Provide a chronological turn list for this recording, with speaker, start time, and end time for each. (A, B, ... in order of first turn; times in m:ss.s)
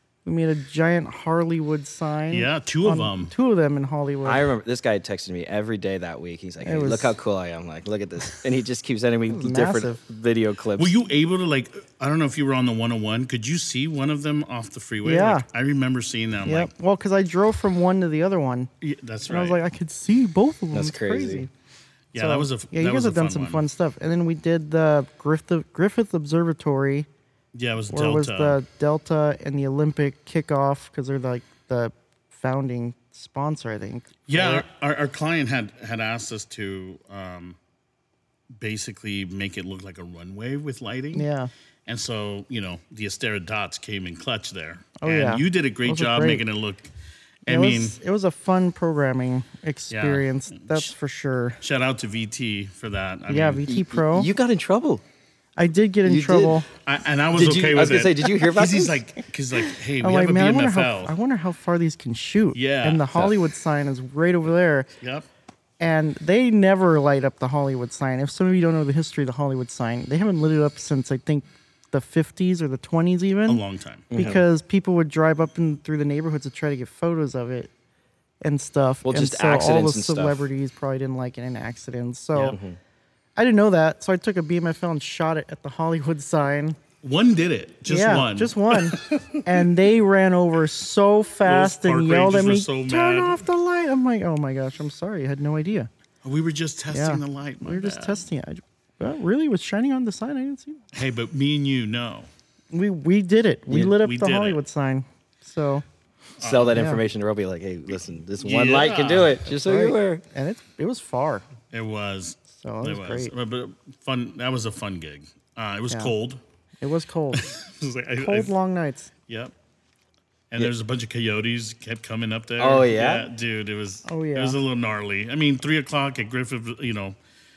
0:00.2-0:04.4 A
0:02.3-0:03.3 B
0:04.2-0:10.9 C
0:06.6-0:07.2 A
0:09.3-0:10.0 A
0:10.8-0:16.7 B
0:15.0-0:15.4 A
0:16.4-0:18.7 A
0:18.8-0:19.6 B
0:19.3-0:21.5 A
0:20.7-0:21.5 C
0:22.1-0:23.6 B
0:22.2-0:27.1 A
0:27.5-0:28.6 B
0:27.9-0:34.6 A
0:34.3-0:37.6 B
0:38.6-0:41.3 B
0:41.1-0:41.5 A
0:41.9-0:46.9 B
0:45.0-0:46.4 A
0:47.4-0:48.0 B
0:47.5-0:51.6 A
0:49.9-0:50.9 B
0:51.6-0:53.6 B
0:53.3-0:54.3 A
0:53.7-0:55.0 C
0:55.6-0:56.7 A
0:56.0-0:56.6 C
0:56.8-1:01.1 B
0:57.3-0:59.0 C
1:00.0-1:04.9 A
1:02.5-1:03.2 B
1:05.0-1:05.3 B
1:05.8-1:13.6 A
1:13.5-1:14.3 B
1:14.1-1:14.4 C
1:14.1-1:17.7 A
1:18.4-1:22.6 A
1:19.0-1:20.4 C
1:22.4-1:22.8 C
1:23.4-1:26.8 A
1:27.0-1:29.6 B
1:27.8-1:35.9 A
1:31.4-1:33.4 B
1:36.2-1:38.2 B
1:36.9-1:40.8 A
1:40.9-1:42.3 B
1:42.7-1:45.8 A
1:43.8-1:44.6 B
1:46.4-1:46.8 B
1:46.4-1:50.2 C
1:46.7-1:47.0 A
1:48.4-1:49.4 B
1:49.5-1:51.4 A
1:51.7-1:56.4 B
1:52.5-1:53.3 A
1:56.8-1:57.5 A
1:57.3-1:58.5 B
1:58.2-1:59.1 A
1:59.3-1:59.5 B
2:00.5-2:07.2 B
2:02.6-2:03.3 C
2:04.0-2:04.6 A